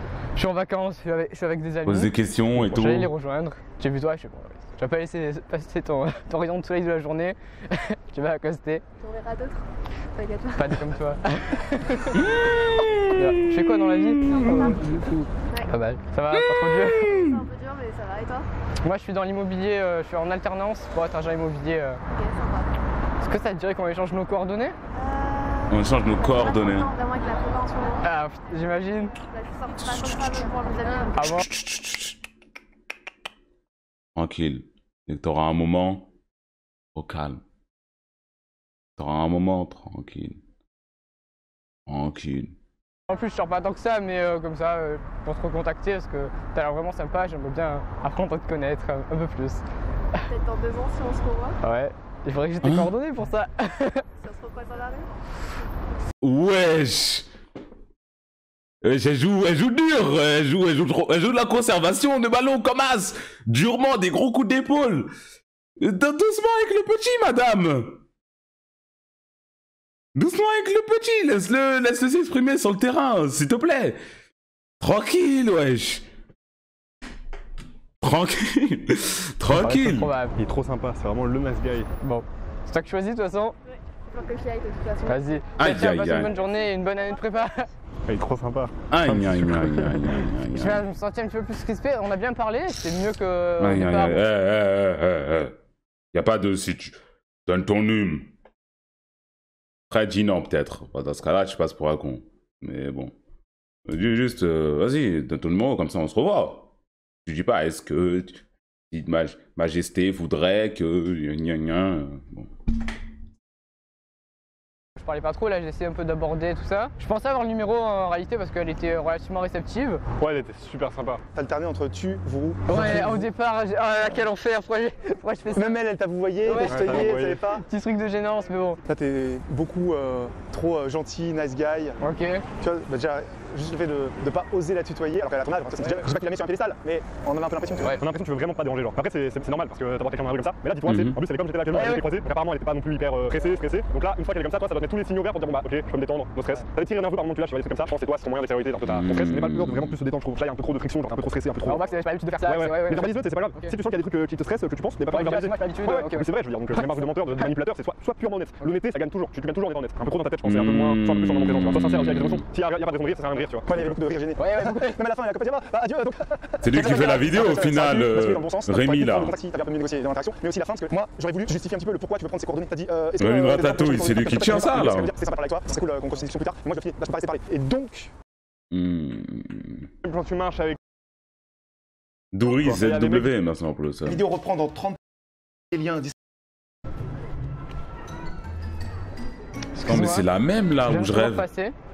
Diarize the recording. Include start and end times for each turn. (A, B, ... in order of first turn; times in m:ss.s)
0:00.4-0:08.8 A
0:01.8-0:03.1 B
0:09.0-0:10.9 C
0:10.6-0:12.2 A
0:12.1-0:14.7 B
0:13.1-0:15.1 A
0:14.4-0:14.7 C
0:15.4-0:15.7 C
0:15.7-0:17.2 A
0:16.3-0:17.4 B
0:17.0-0:18.5 C
0:18.8-0:22.0 A
0:22.1-0:22.7 C
0:23.2-0:24.8 A
0:24.9-0:28.0 C
0:25.7-0:26.9 B
0:28.0-0:29.1 A
0:29.2-0:31.4 C
0:29.9-0:30.4 B
0:31.1-0:31.4 A
0:31.2-0:32.2 B
0:34.2-0:36.1 B
0:36.9-0:37.4 B
0:39.0-0:40.4 B
0:41.9-0:42.5 B
0:43.1-0:49.6 A
0:50.3-0:51.6 C
0:51.6-0:54.0 A
0:52.6-0:52.9 B
0:54.2-0:55.1 C
0:56.2-0:57.3 B
0:58.8-1:05.1 B
1:05.8-1:08.0 B
1:10.1-1:14.0 B
1:14.8-1:16.1 B
1:18.0-1:20.1 B
1:19.5-1:20.4 A
1:20.4-1:21.9 D
1:22.0-1:23.6 A
1:24.1-1:25.3 C
1:25.1-1:27.7 A
1:25.6-1:26.3 B
1:26.1-1:26.6 C
1:28.1-1:30.1 D
1:28.9-1:30.8 B
1:30.5-1:34.2 A
1:33.6-1:35.5 B
1:36.1-1:38.3 B
1:39.9-1:43.1 B
1:43.8-1:46.7 B
1:47.2-1:48.4 B
1:48.9-1:52.5 B
1:55.0-2:00.0 A
2:00.2-2:01.2 D
2:01.3-2:03.2 E
2:02.7-2:05.8 A
2:05.5-2:07.6 E
2:06.5-2:07.1 A
2:06.6-2:07.5 D
2:07.6-2:08.8 A
2:08.9-2:12.0 E
2:12.0-2:12.4 A
2:12.6-2:18.0 E
2:17.9-2:31.8 D
2:20.9-2:21.2 B
2:21.7-2:22.1 A
2:28.8-2:30.0 B
2:31.6-2:33.7 A
2:32.4-2:43.9 D
2:35.1-2:36.8 A
2:40.4-2:42.4 B
2:43.7-2:58.1 E
2:44.4-2:45.0 A
2:46.6-2:49.3 B
2:46.8-2:47.3 A
2:53.2-2:55.1 B
2:58.7-2:59.9 B
3:00.0-3:00.8 D
3:02.3-3:04.2 B
3:02.4-3:03.3 D
3:04.0-3:05.0 E
3:05.7-3:06.1 E
3:09.7-3:10.2 A
3:09.8-3:11.4 B
3:10.8-3:11.7 A